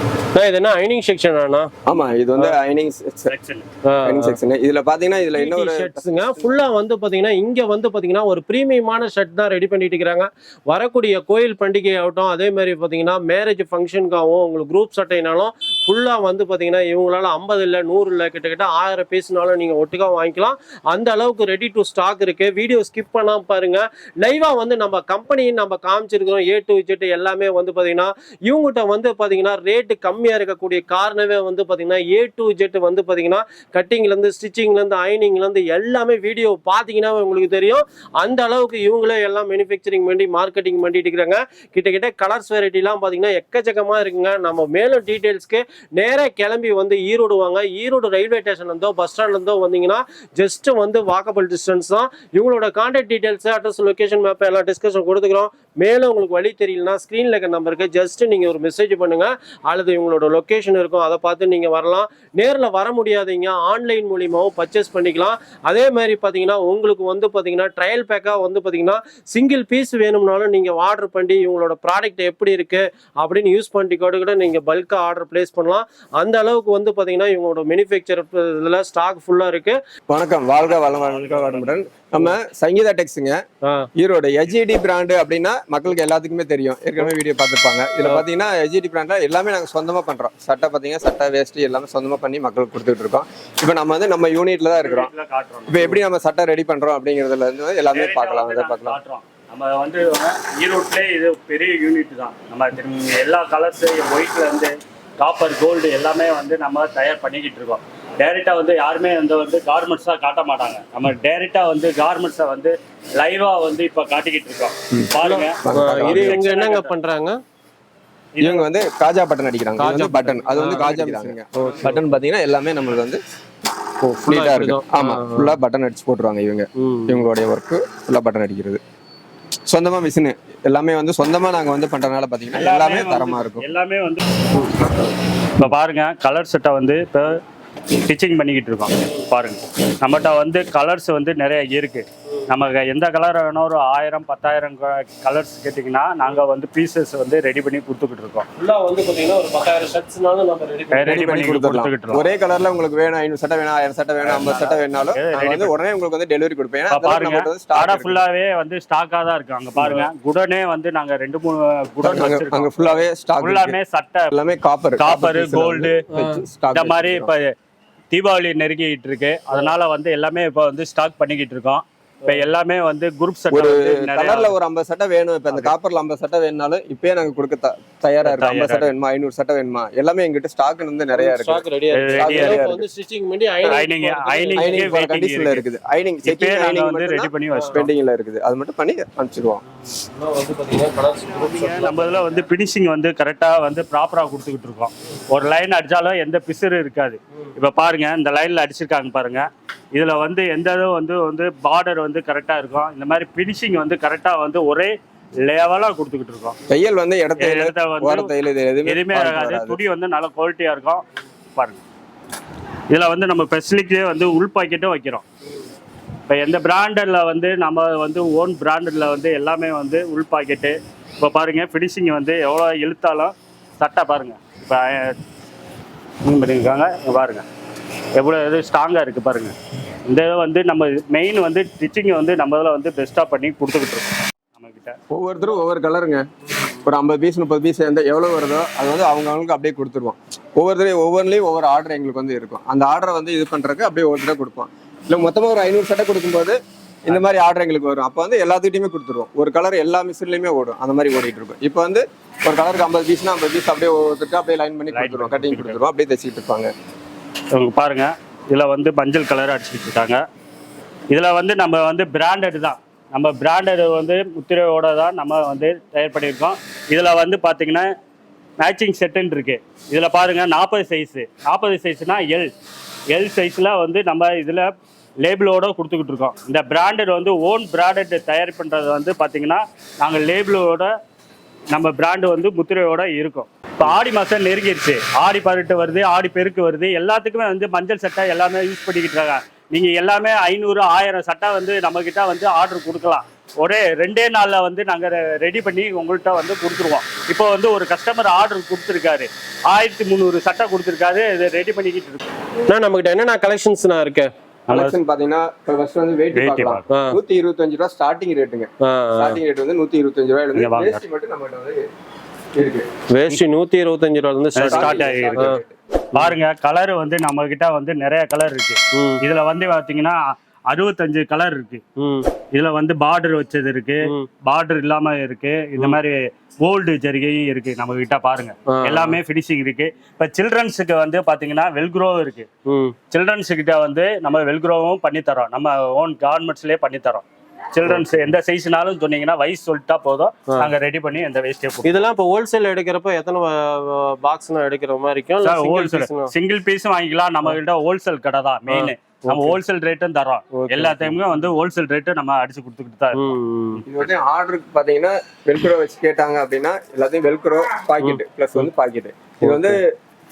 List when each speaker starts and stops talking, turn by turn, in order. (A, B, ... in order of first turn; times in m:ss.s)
0:00.4-0:01.7 A
0:01.9-0:03.3 B
0:03.3-0:03.6 C
0:03.9-0:04.4 A
0:04.0-0:06.5 B
0:05.4-1:19.8 A
1:20.1-1:23.4 B
1:20.7-1:21.8 C
1:24.0-1:35.1 B
1:34.8-1:36.0 C
1:35.7-1:39.0 B
1:37.9-1:56.9 C
1:55.2-1:57.4 A
1:55.6-1:56.5 B
1:58.4-1:58.7 C
1:58.4-2:03.2 B
1:59.8-2:02.0 A
2:04.0-2:05.6 A
2:04.3-2:08.8 B
2:06.8-2:07.2 A
2:09.7-2:13.6 B
2:12.5-2:14.2 C
2:15.6-2:17.4 C
2:18.0-2:28.5 C
2:28.6-2:31.4 A
2:31.0-2:32.2 C
2:31.1-2:38.2 B
2:34.4-2:35.7 C
2:36.9-2:44.4 C
2:39.8-2:40.0 B
2:42.0-2:43.8 B
2:44.3-2:47.3 B
2:45.0-2:46.0 C
2:46.1-2:46.4 A
2:46.7-2:47.5 C
2:48.1-2:54.5 C
2:53.5-3:01.6 B
2:58.2-2:58.9 C
3:01.2-3:05.0 A
3:01.9-3:02.7 C
3:02.2-3:02.8 B
3:03.6-3:05.6 C
3:04.6-3:09.6 B
3:06.2-3:07.9 C
3:10.0-3:12.4 A
3:11.4-3:26.6 C
3:26.7-3:29.8 B
3:27.4-3:28.3 C
3:28.9-3:31.0 C
3:31.6-3:31.8 C
3:32.9-3:35.2 C
3:36.3-3:45.2 C
3:46.2-3:47.4 C
3:48.2-3:49.5 C
3:50.1-3:55.0 C
3:55.1-3:56.2 B
3:56.8-4:16.7 B
4:14.9-4:15.8 C
4:17.5-4:20.2 C
4:21.1-4:27.9 C
4:28.6-4:32.5 C
4:33.1-4:34.7 C
4:35.2-4:40.9 C
4:41.7-5:02.2 C
5:02.7-5:04.3 A
5:04.7-5:05.0 C
5:04.7-5:11.8 B
5:06.3-5:06.8 C
5:06.9-5:07.2 A
5:08.8-5:09.4 A
5:10.6-5:11.0 C
5:12.6-5:12.9 B
5:13.1-5:15.6 A
5:14.6-5:15.5 C
5:14.7-5:15.7 B
5:16.1-5:21.8 C
5:18.9-5:19.2 A
5:22.0-5:22.3 A
5:22.5-5:32.5 C
5:24.0-5:24.3 A
5:28.7-5:29.2 A
5:32.7-5:33.0 A
5:33.1-5:42.1 C
5:41.8-5:46.3 A
5:45.4-5:54.0 C
5:48.7-5:49.6 A
5:50.5-5:51.4 A
5:53.1-5:53.8 A
5:53.9-5:59.9 B
5:59.4-5:59.8 A